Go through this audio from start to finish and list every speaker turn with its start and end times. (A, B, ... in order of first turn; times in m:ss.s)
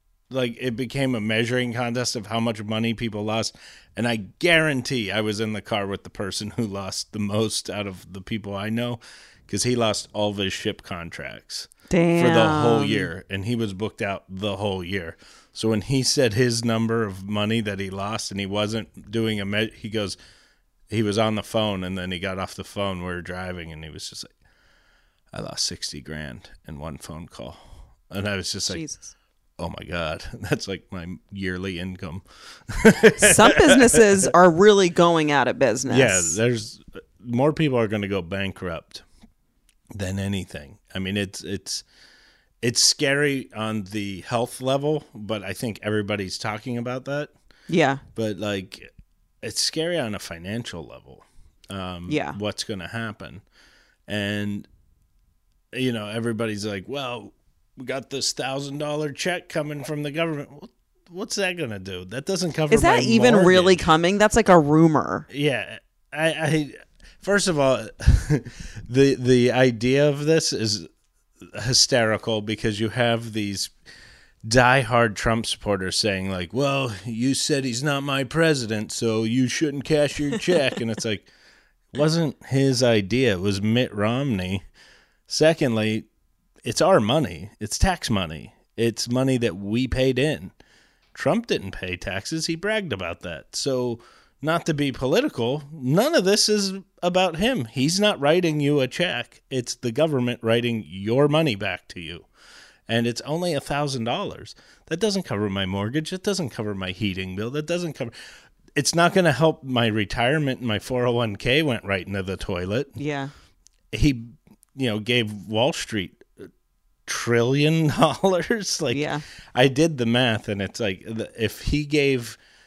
0:00.3-0:20.2 A
0:11.9-0:13.1 B
0:20.9-0:24.3 A
0:25.3-0:28.8 A
0:28.7-0:29.1 B
0:29.6-0:34.3 A
0:33.2-0:36.4 B
0:35.9-0:39.0 A
0:39.9-0:41.8 A
0:42.6-0:47.3 A
0:47.7-0:48.0 B
0:48.2-0:48.9 A
0:49.4-0:53.4 A
0:52.1-0:52.4 B
0:54.1-0:54.7 A
0:55.7-1:03.9 A
1:02.7-1:05.3 B
1:05.3-1:10.9 A
1:11.4-1:13.7 A
1:14.4-1:21.3 A
1:21.9-1:24.6 A
1:25.3-1:26.1 A
1:26.6-1:30.5 A
1:31.1-1:42.3 A
1:42.9-1:48.1 A
1:48.8-1:53.0 A
1:53.0-1:53.3 B
1:53.9-1:56.5 A
1:57.1-2:02.4 A
1:58.9-1:59.2 B